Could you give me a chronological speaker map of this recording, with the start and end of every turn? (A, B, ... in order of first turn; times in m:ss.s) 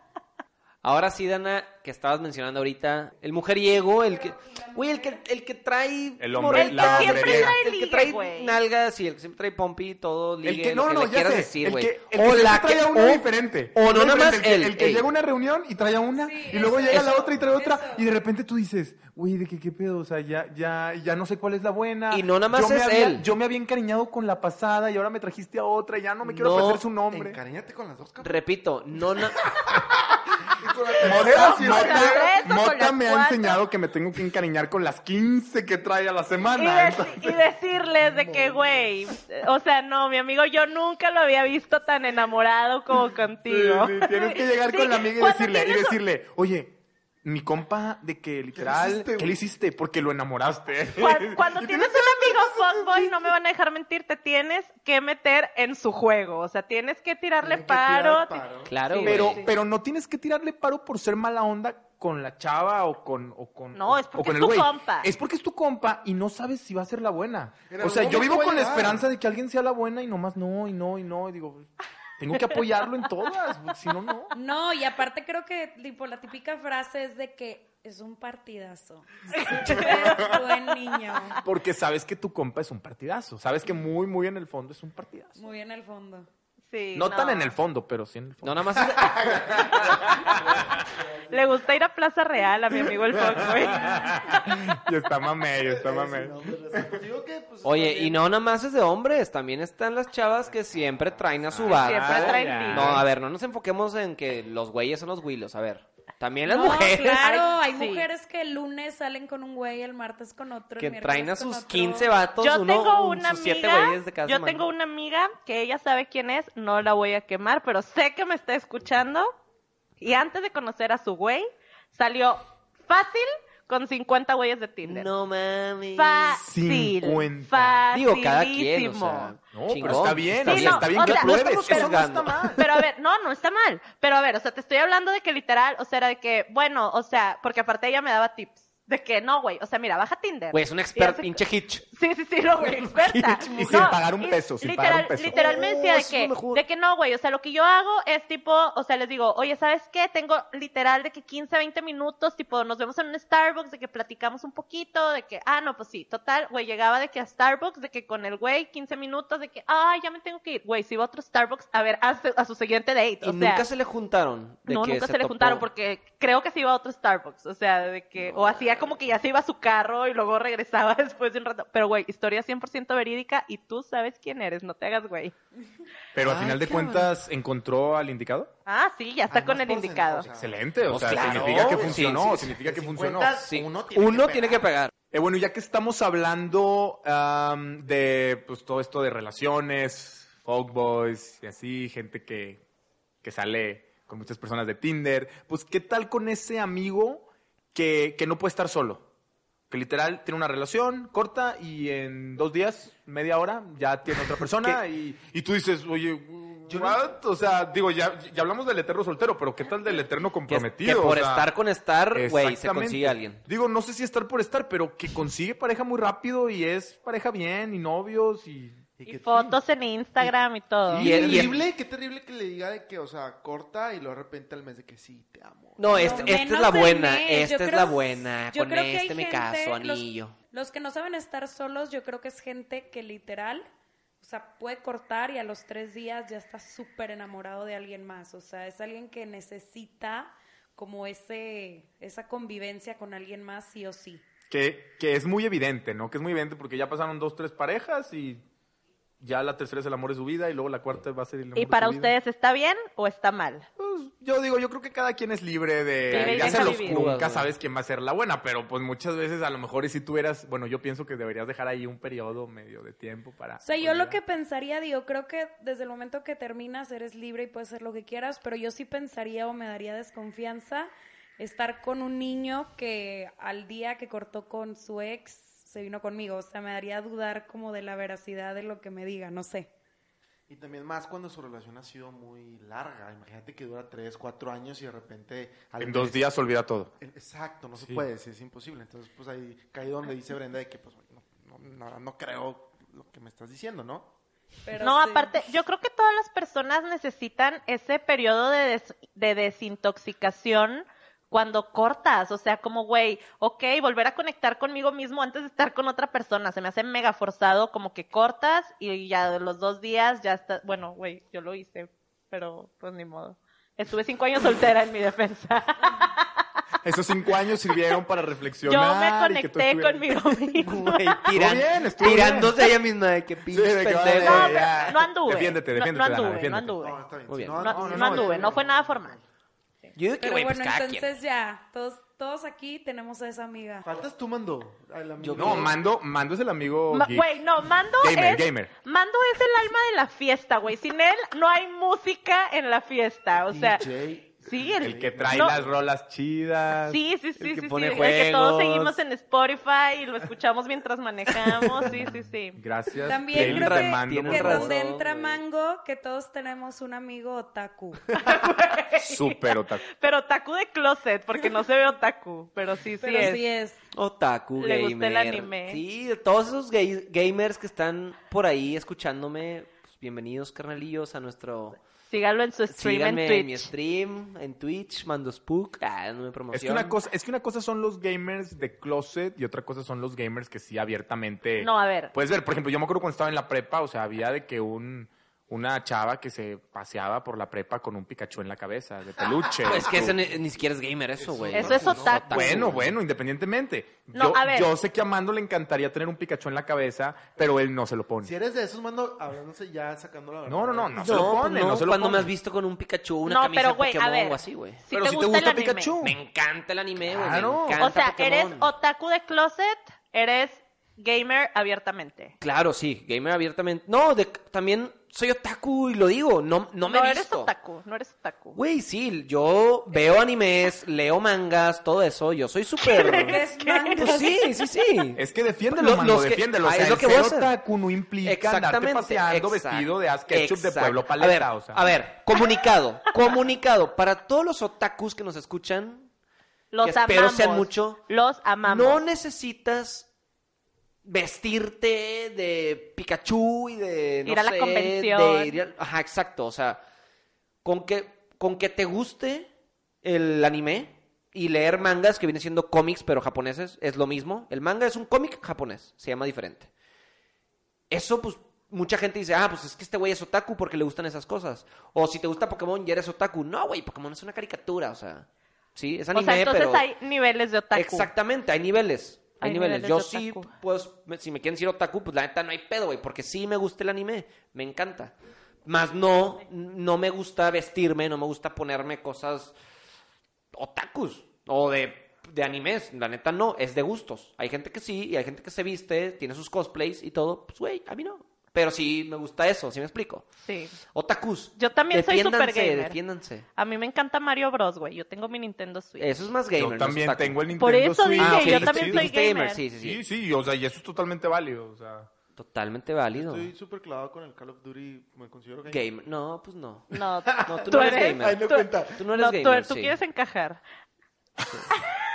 0:00.8-0:15.1 A
0:04.0-0:05.2 B
0:06.2-0:07.6 C
0:06.5-0:08.6 D
0:10.4-0:27.4 C
0:16.2-0:18.0 B
0:22.1-0:23.2 A
0:26.3-0:26.8 A
0:27.0-0:32.3 E
0:28.2-0:29.4 A
0:31.0-0:37.4 C
0:31.2-0:33.6 D
0:36.6-0:46.0 D
0:38.0-0:38.9 E
0:43.5-0:53.1 C
0:48.6-0:49.4 E
0:51.0-0:59.5 D
0:57.4-0:58.8 E
0:58.7-0:59.4 A
0:59.0-1:14.3 C
1:03.8-1:05.1 D
1:07.7-1:09.1 E
1:14.3-1:21.4 B
1:19.3-1:20.4 D
1:20.0-1:20.4 C
1:21.4-1:25.4 C
1:25.4-1:26.3 B
1:26.7-1:27.5 D
1:27.0-1:30.8 C
1:28.4-1:29.3 A
1:28.8-1:31.7 E
1:31.3-1:34.3 D
1:33.1-1:33.9 E
1:33.1-1:37.0 C
1:35.6-1:38.2 E
1:37.6-1:47.2 A
1:40.8-1:41.7 E
1:41.6-1:43.0 C
1:41.7-1:43.0 D
1:46.5-1:52.1 B
1:47.2-1:48.1 D
1:50.8-1:54.7 A
1:52.4-1:59.3 D
2:00.0-2:05.1 D
2:04.8-2:06.4 A
2:06.0-2:21.4 D
2:06.4-2:07.8 C
2:07.9-2:12.6 A
2:09.5-2:12.7 C
2:20.5-2:21.8 A
2:21.9-2:43.6 D
2:22.7-2:24.0 A
2:23.6-2:25.4 C
2:25.3-2:26.6 A
2:43.2-2:45.6 A
2:44.7-2:55.3 D
2:48.3-2:48.7 A
2:56.2-2:58.5 C
2:56.2-2:57.0 A
2:58.7-3:00.3 D
2:59.3-3:04.7 E
3:00.3-3:03.4 C
3:00.9-3:02.5 A
3:03.2-3:04.9 A
3:05.1-3:12.6 C
3:13.2-3:19.0 C
3:19.7-3:31.5 C
3:26.7-3:27.1 E
3:30.5-3:33.4 A
3:32.1-3:38.8 C
3:39.0-3:39.6 E
3:39.1-3:41.3 D
3:40.9-3:46.5 E
3:40.9-3:41.6 C
3:41.0-3:41.6 A
3:45.8-3:50.3 A
3:45.9-3:53.7 B
3:54.2-4:04.2 B
4:04.5-4:08.4 C
4:09.2-4:12.2 C
4:11.6-4:13.7 D
4:13.8-4:24.2 C
4:16.1-4:17.5 A
4:16.1-4:17.1 D
4:23.6-4:39.7 B
4:40.5-4:46.2 E
4:45.8-4:46.9 C
4:47.0-4:54.1 E
4:47.8-4:48.0 C
4:54.6-4:55.5 B
4:54.8-5:16.3 D
5:16.8-5:20.4 C
5:18.7-5:21.3 D
5:20.6-5:24.8 A
5:21.3-5:22.7 C
5:23.5-5:26.8 C
5:24.2-5:27.0 D
5:26.8-5:29.2 E
5:27.3-5:28.0 A
5:27.6-5:29.2 D
5:27.7-5:28.4 C
5:30.0-5:31.1 A
5:30.2-5:33.9 B
5:33.8-5:35.8 E
5:35.2-5:35.7 A
5:35.3-5:37.3 C
5:36.9-5:43.9 D
5:38.0-5:38.7 C
5:43.4-5:45.8 E
5:44.4-5:45.6 D
5:44.8-5:47.0 C
5:46.9-5:52.6 D
5:47.4-5:49.0 A
5:52.0-5:54.7 C
5:53.0-5:58.0 B
5:53.3-5:55.4 A
5:58.2-6:03.4 D
5:59.0-5:59.8 C
6:03.0-6:03.8 B
6:03.9-6:11.8 A
6:04.6-6:05.8 D
6:12.1-6:13.7 D
6:12.7-6:17.0 A
6:16.5-6:30.2 C
6:21.6-6:22.1 D
6:29.6-6:32.9 A
6:29.7-6:30.4 E
6:31.2-6:32.3 E
6:31.5-6:32.8 D
6:32.3-6:38.3 C
6:34.1-6:34.7 D
6:38.2-6:41.4 E
6:40.5-6:42.3 C
6:41.0-6:44.8 A
6:43.3-6:46.0 D
6:44.9-6:46.2 C
6:46.0-6:48.7 A
6:47.1-6:47.9 C
6:47.8-6:52.4 D
6:52.4-6:57.5 A
6:56.9-6:58.6 D
6:58.6-7:03.4 A
7:02.8-7:04.2 D
7:03.0-7:04.5 B
7:04.0-7:07.5 A
7:05.2-7:11.9 C
7:08.2-7:16.1 A
7:16.7-7:19.0 D
7:16.8-7:18.0 A
7:18.6-7:20.1 A
7:21.0-7:26.8 A
7:24.3-7:25.6 D
7:27.6-7:29.5 A
7:30.0-7:36.7 A
7:37.9-7:46.8 A
7:46.1-7:48.1 D
7:47.7-7:59.6 A
7:49.4-7:50.5 D
8:00.5-8:10.3 A
8:10.4-8:10.8 D
8:10.8-8:13.5 A
8:11.6-8:13.0 D
8:13.6-8:16.2 D
8:16.0-8:17.4 A
8:16.6-8:19.1 C
8:17.5-8:19.6 D
8:18.2-8:20.0 A
8:19.8-8:22.1 C
8:22.4-8:23.5 A
8:23.1-8:26.0 E
8:25.7-8:28.4 A
8:26.9-8:30.6 D
8:27.3-8:29.0 E
8:29.0-8:30.0 A